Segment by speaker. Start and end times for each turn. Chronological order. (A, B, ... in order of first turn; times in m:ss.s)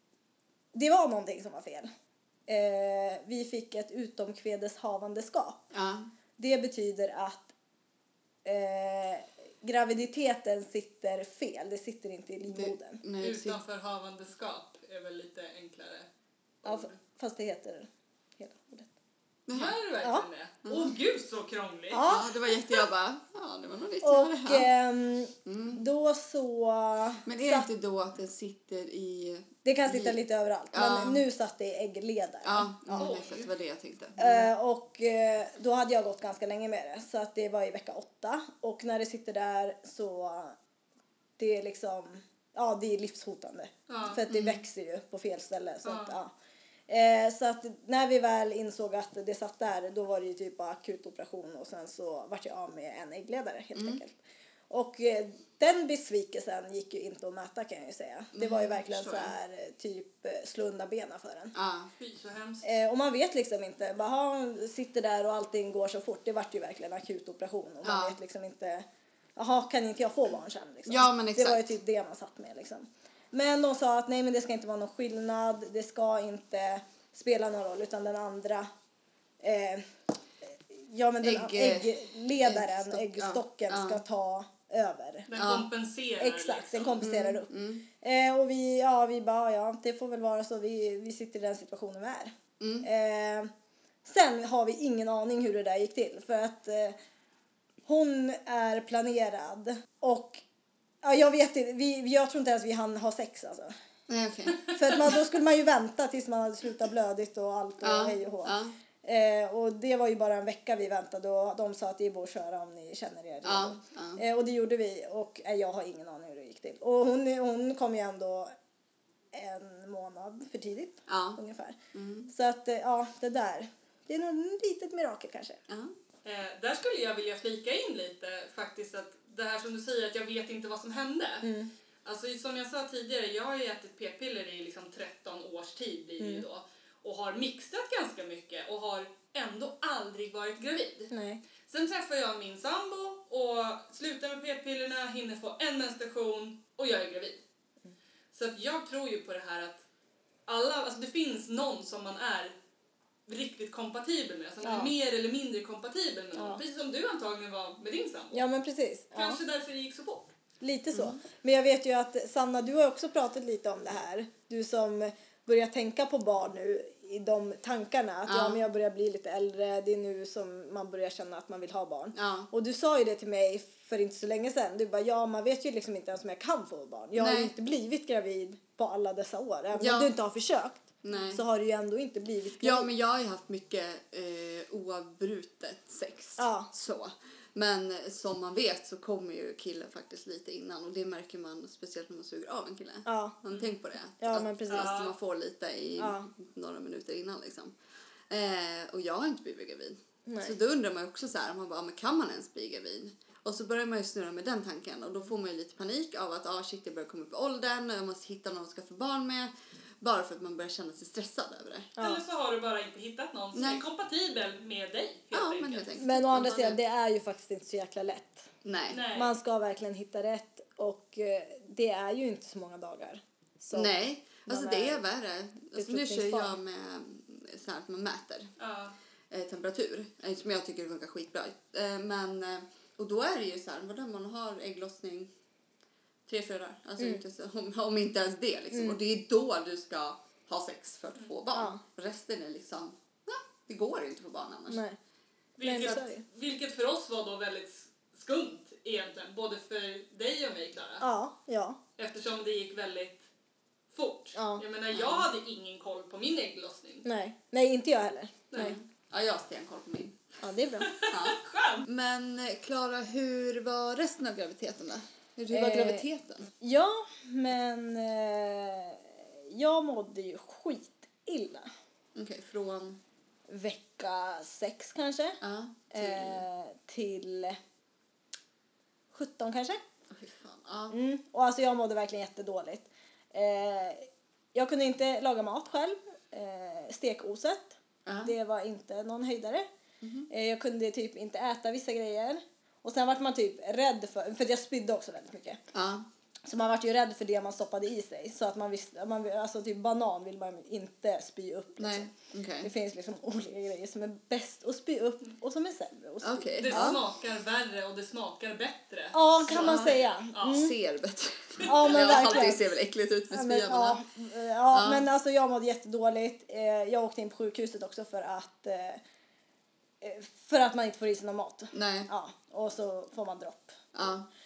0:00.7-0:01.9 A
0:02.5-0:05.6 A
0:05.7-0:06.1 B
0:06.4-0:07.5 A
0:08.4-0:13.0 A
0:12.5-0:13.6 B
0:13.2-0:16.1 C
0:16.6-0:17.0 C
0:16.6-0:18.9 A
0:19.5-0:19.8 B
0:19.5-0:22.0 C
0:20.6-0:20.9 B
0:21.9-0:22.3 A
0:22.1-0:24.7 B
0:24.0-0:27.7 A
0:25.4-0:25.8 B
0:27.2-0:30.2 B
0:29.6-0:33.1 A
0:30.7-0:31.2 B
0:32.4-0:34.5 B
0:33.0-0:33.5 C
0:34.2-0:40.6 A
0:41.4-0:46.3 A
0:43.9-0:44.2 C
0:44.3-0:44.6 B
0:45.8-0:46.1 C
0:46.9-0:54.2 A
0:53.7-0:54.0 B
0:54.7-1:01.5 A
0:58.3-0:59.3 B
1:01.5-1:01.9 B
1:02.0-1:02.7 C
1:02.6-1:08.8 A
1:07.8-1:08.2 B
1:09.4-1:18.6 A
1:10.9-1:11.7 B
1:19.4-1:19.9 A
1:20.4-1:25.3 A
1:21.2-1:24.0 B
1:25.3-1:27.0 C
1:25.4-1:25.7 B
1:26.2-1:27.5 A
1:27.0-1:27.8 B
1:28.0-1:33.5 A
1:32.6-1:32.9 B
1:34.0-1:37.0 A
1:37.8-1:40.4 A
1:41.0-1:43.7 A
1:44.1-1:45.1 B
1:44.7-1:58.5 A
1:47.8-1:48.7 B
1:53.4-1:54.2 B
1:59.3-2:01.8 A
2:01.1-2:01.4 B
2:01.9-2:02.3 B
2:02.3-2:05.6 A
2:06.2-2:11.5 C
2:11.4-2:11.7 A
2:12.0-2:21.1 C
2:16.2-2:16.4 A
2:21.1-2:21.4 A
2:21.6-2:27.4 C
2:28.3-2:29.8 C
2:30.5-2:32.6 C
2:33.3-2:38.4 C
2:34.6-2:34.9 A
2:36.3-2:36.6 A
2:38.3-2:39.4 A
2:39.1-2:40.3 C
2:40.6-3:02.9 A
2:40.9-2:41.2 B
2:48.3-2:48.6 B
2:52.1-2:52.5 B
2:57.2-2:57.5 B
2:59.8-3:00.1 B
3:01.0-3:01.4 B
3:02.6-3:17.7 B
3:06.4-3:06.7 A
3:13.0-3:13.4 A
3:14.2-3:15.0 A
3:14.7-3:15.1 C
3:16.0-3:16.3 A
3:18.3-3:31.9 B
3:20.3-3:20.5 A
3:32.0-3:32.2 A
3:32.0-3:35.9 C
3:33.5-3:33.8 B
3:35.3-3:36.8 B
3:36.0-3:38.5 A
3:38.6-3:39.0 B
3:38.9-3:39.3 C
3:39.1-3:45.0 A
3:43.7-3:48.5 B
3:45.7-3:46.6 A
3:48.6-3:48.9 C
3:49.3-3:55.3 B
3:56.3-4:04.8 B
3:58.7-3:59.0 A
4:01.5-4:01.8 A
4:04.7-4:05.0 A
4:05.6-4:11.0 C
4:05.6-4:06.2 A
4:11.0-4:11.8 A
4:12.0-4:13.3 C
4:13.9-4:17.0 C
4:14.3-4:14.6 A
4:14.9-4:15.3 B
4:17.0-4:18.7 A
4:18.5-4:20.3 B
4:20.4-4:20.9 A
4:20.8-4:21.8 C
4:21.1-4:26.5 B
4:25.5-4:26.0 A
4:26.6-4:31.7 A
4:32.1-4:33.0 B
4:33.5-4:35.4 A
4:35.4-4:36.4 B
4:35.9-4:37.6 A
4:39.1-4:39.8 A
4:40.1-4:41.0 B
4:40.9-4:49.6 A
4:48.0-4:48.3 B
4:50.0-4:50.3 B
4:50.3-4:55.6 A
4:55.7-4:56.0 B
4:56.4-5:02.1 A
5:01.8-5:02.7 B
5:02.6-5:07.0 A
5:06.2-5:07.0 B
5:06.6-5:10.7 C
5:09.1-5:10.7 A
5:09.5-5:14.0 B
5:11.6-5:12.4 C
5:11.6-5:12.6 A
5:13.3-5:19.0 A
5:14.7-5:15.0 B
5:20.0-5:23.8 A
5:21.7-5:22.1 B
5:23.9-5:24.3 B